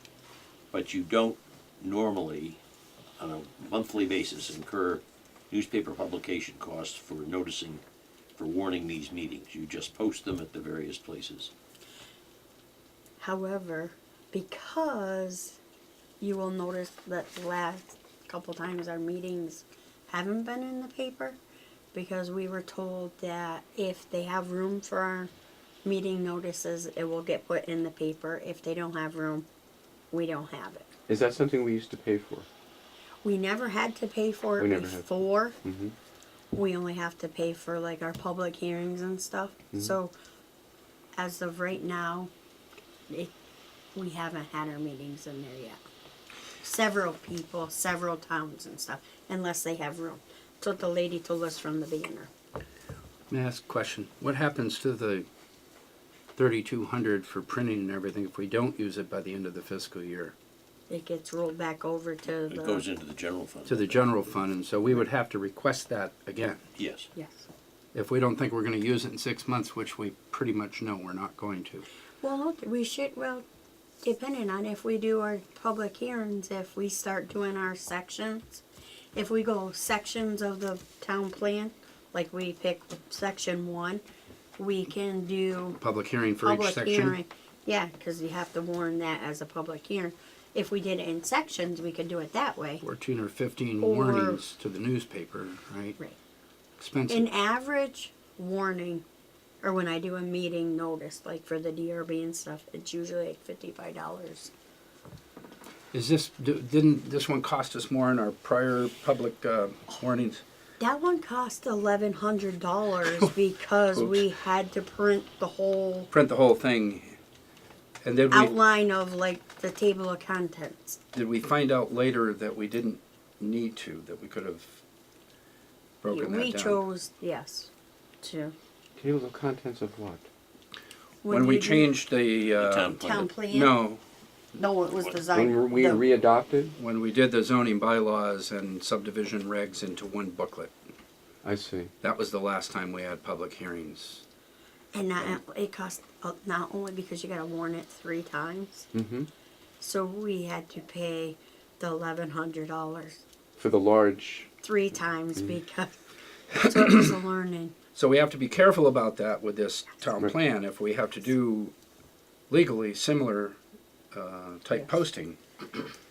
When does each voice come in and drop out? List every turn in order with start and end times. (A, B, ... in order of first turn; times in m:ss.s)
0:00.7-0:02.6 A
0:03.2-0:07.8 A
0:08.4-0:11.5 A
0:13.2-0:15.6 B
0:16.2-0:21.4 B
0:21.9-0:25.3 B
0:25.8-0:29.5 B
0:30.1-0:31.0 B
0:31.1-0:32.5 C
0:33.2-0:35.6 B
0:34.6-0:35.0 C
0:35.6-0:35.9 C
0:36.5-0:40.1 B
0:41.2-0:42.3 B
0:43.9-0:45.8 B
0:46.6-0:52.3 B
0:53.3-0:55.3 D
0:56.4-1:00.3 D
1:00.9-1:02.8 B
1:02.5-1:04.0 A
1:03.6-1:06.6 D
1:06.8-1:07.1 A
1:07.1-1:07.5 B
1:07.9-1:11.8 D
1:12.2-1:13.4 B
1:14.0-1:18.6 B
1:19.1-1:24.0 B
1:24.6-1:25.8 B
1:25.8-1:27.2 D
1:26.4-1:32.8 B
1:32.8-1:36.0 D
1:33.8-1:34.4 B
1:36.8-1:37.3 D
1:37.1-1:39.0 B
1:39.6-1:44.5 B
1:45.9-1:50.4 D
1:50.8-1:56.1 B
1:53.9-1:54.2 D
1:56.1-1:57.2 D
1:58.0-1:58.5 D
1:58.3-2:01.0 B
2:01.1-2:04.8 D
2:06.0-2:06.8 D
2:06.1-2:07.7 B
2:08.2-2:08.5 B
2:09.0-2:10.3 C
2:11.2-2:11.9 B
2:11.3-2:14.0 D
2:12.6-2:13.3 A
2:13.0-2:13.8 B
2:14.6-2:16.0 B
2:15.3-2:16.7 C
2:16.7-2:20.7 D
2:21.4-2:21.9 C
2:22.0-2:24.2 D
2:24.9-2:28.9 B
2:28.9-2:29.3 C
2:29.8-2:33.2 B
2:33.6-2:34.5 C
2:34.6-2:35.9 B
2:36.6-2:37.7 B
2:36.8-2:37.1 D
2:37.9-2:41.7 D
2:42.5-2:43.6 D
2:44.1-2:45.8 D